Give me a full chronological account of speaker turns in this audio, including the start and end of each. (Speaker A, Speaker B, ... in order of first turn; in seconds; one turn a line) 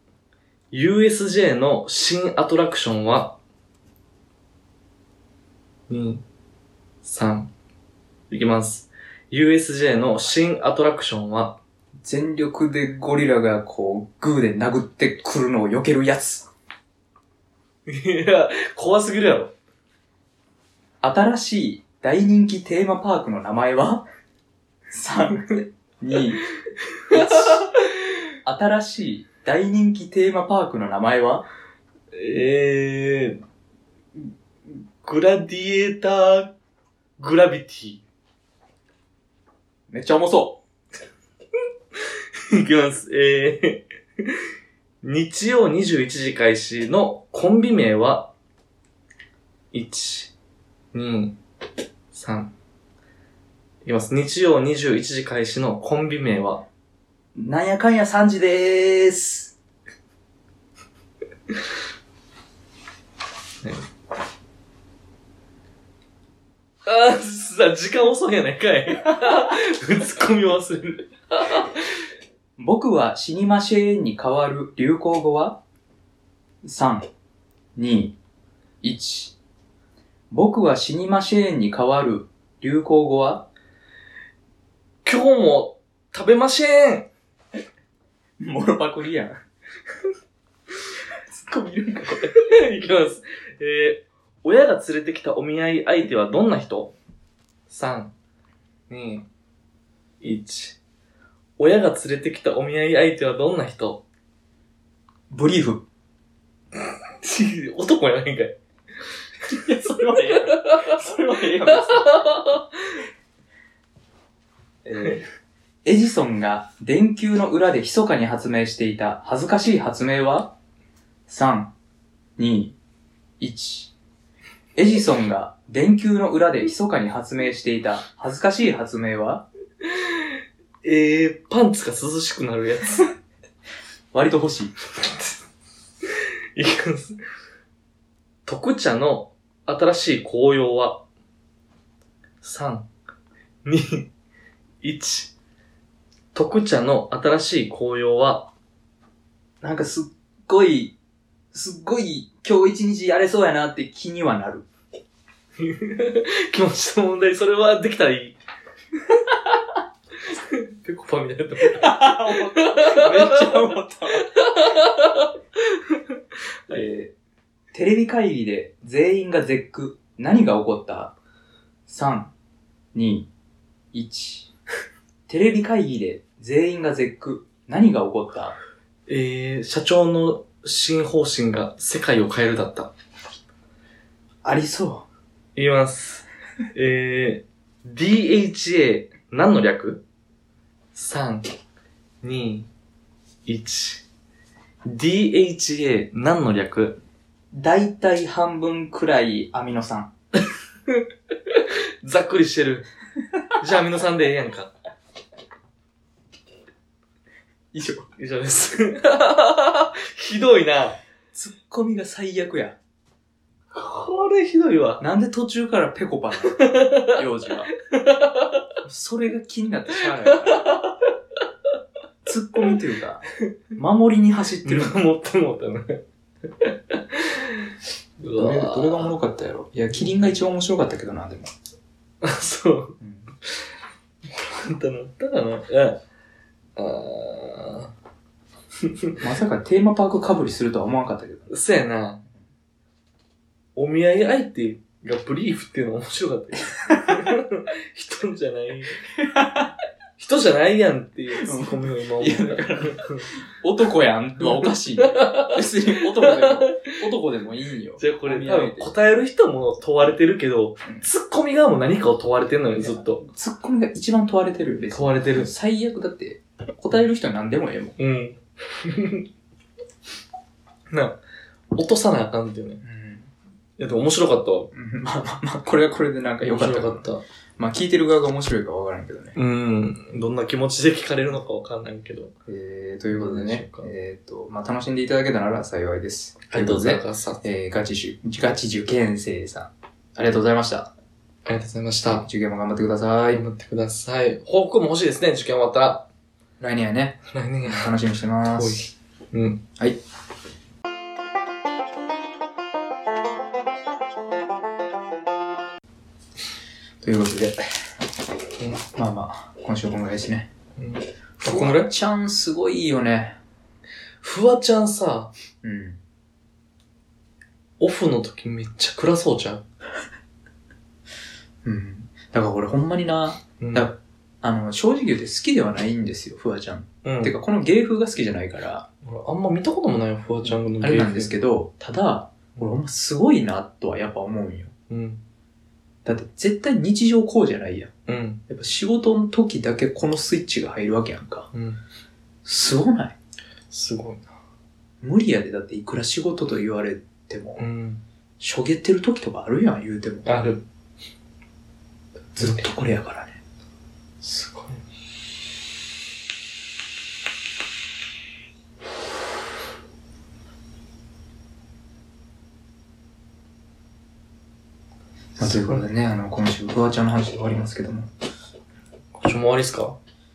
Speaker A: 0.7-3.4
Speaker A: 5.9-6.2
Speaker A: 7.0-7.5
Speaker A: 8.3-11.6
Speaker B: 12.0-16.5
Speaker A: 17.9-19.5
Speaker B: 21.0-24.0
Speaker B: 24.9-26.4
Speaker A: 26.9-28.2
Speaker B: 27.1-27.7
Speaker B: 28.4-31.4
Speaker A: 32.1-33.4
Speaker A: 35.0-36.5
Speaker A: 37.2-38.0
Speaker B: 39.9-40.6
Speaker A: 41.9-44.5
Speaker A: 45.0-48.3
Speaker A: 49.7-50.3
Speaker A: 50.9-51.4
Speaker A: 52.1-52.5
Speaker A: 53.8-56.6
Speaker B: 57.3-59.5
Speaker A: 66.8-72.0
Speaker B: 72.6-75.6
Speaker B: 76.6-77.1
Speaker B: 77.8-78.1
Speaker B: 78.8-79.3
Speaker B: 80.3-83.5
Speaker A: 85.0-87.1
Speaker B: 88.4-89.4
Speaker B: 91.3-92.3
Speaker A: 92.2-96.9
Speaker A: 97.7-98.1
Speaker A: 98.9-99.3
Speaker A: 100.2-100.8
Speaker A: 101.6-104.0
Speaker B: 105.3-105.8
Speaker A: 106.7-108.5
Speaker B: 109.5-112.2
Speaker A: 109.5-113.0
Speaker B: 114.8-115.2
Speaker B: 115.8-120.5
Speaker B: 121.3-121.7
Speaker B: 122.4-122.8
Speaker B: 123.4-123.9
Speaker B: 124.8-129.4
Speaker A: 129.8-133.1
Speaker B: 134.1-134.7
Speaker A: 136.1-137.2
Speaker A: 138.4-141.0
Speaker A: 142.4-142.9
Speaker A: 143.6-144.1
Speaker A: 144.8-145.3
Speaker A: 146.3-148.5
Speaker B: 149.6-150.9
Speaker B: 151.5-154.7
Speaker A: 155.6-158.4
Speaker A: 160.2-166.8
Speaker B: 161.6-164.2
Speaker B: 166.7-167.1
Speaker B: 167.7-171.1
Speaker B: 171.9-172.3
Speaker B: 172.9-173.3
Speaker B: 173.9-174.5
Speaker B: 175.3-178.6
Speaker A: 179.1-182.9
Speaker B: 184.4-185.1
Speaker A: 185.5-190.0
Speaker A: 190.9-191.5
Speaker A: 192.2-192.7
Speaker A: 193.4-194.0
Speaker A: 194.8-197.0
Speaker B: 197.5-200.1
Speaker A: 200.9-202.9
Speaker A: 203.6-204.7
Speaker B: 207.7-208.1
Speaker A: 208.2-211.0
Speaker B: 211.3-212.8
Speaker A: 213.7-215.0
Speaker B: 215.0-217.7
Speaker A: 216.4-217.2
Speaker A: 217.8-218.7
Speaker B: 218.8-220.8
Speaker A: 219.9-221.1
Speaker B: 222.2-224.9
Speaker A: 224.6-229.1
Speaker B: 228.3-231.5
Speaker A: 232.2-233.7
Speaker B: 233.0-233.3
Speaker A: 234.2-236.0
Speaker A: 236.8-237.9
Speaker A: 238.8-239.2
Speaker B: 239.2-241.5
Speaker A: 241.5-242.2
Speaker A: 243.8-249.1
Speaker B: 246.9-247.1
Speaker B: 249.2-249.7
Speaker A: 250.2-253.3
Speaker B: 251.3-258.9
Speaker A: 254.4-256.9
Speaker A: 258.0-263.2
Speaker B: 262.8-267.9
Speaker A: 264.9-265.5
Speaker A: 268.0-269.3
Speaker A: 270.9-271.1
Speaker A: 271.7-272.8
Speaker B: 272.8-273.3
Speaker A: 273.8-274.7
Speaker B: 274.7-277.1
Speaker A: 276.4-277.2
Speaker B: 277.6-279.4
Speaker A: 279.3-282.3
Speaker B: 282.5-290.9
Speaker A: 283.1-283.9
Speaker A: 286.5-287.4
Speaker A: 291.4-292.2
Speaker B: 292.1-293.4
Speaker A: 293.3-296.1
Speaker B: 296.6-298.9
Speaker A: 297.3-299.6
Speaker B: 307.0-307.6
Speaker B: 308.9-310.5
Speaker A: 310.8-311.9
Speaker B: 311.4-313.4
Speaker A: 314.2-315.3
Speaker B: 315.6-316.0
Speaker A: 317.8-319.6
Speaker B: 321.6-328.9
Speaker A: 323.6-323.9
Speaker A: 327.0-327.3
Speaker A: 329.0-331.3
Speaker B: 330.4-334.7
Speaker A: 334.9-335.2
Speaker B: 336.0-337.9
Speaker A: 338.1-338.4
Speaker B: 338.5-341.5
Speaker A: 341.5-341.8
Speaker B: 342.4-343.1
Speaker A: 343.7-344.3
Speaker B: 345.0-347.6
Speaker A: 347.6-348.0
Speaker B: 348.4-350.5
Speaker A: 350.2-350.6
Speaker B: 352.3-353.4
Speaker A: 352.4-352.9
Speaker A: 354.2-354.8
Speaker B: 365.4-368.1
Speaker A: 365.4-365.8
Speaker A: 369.1-370.0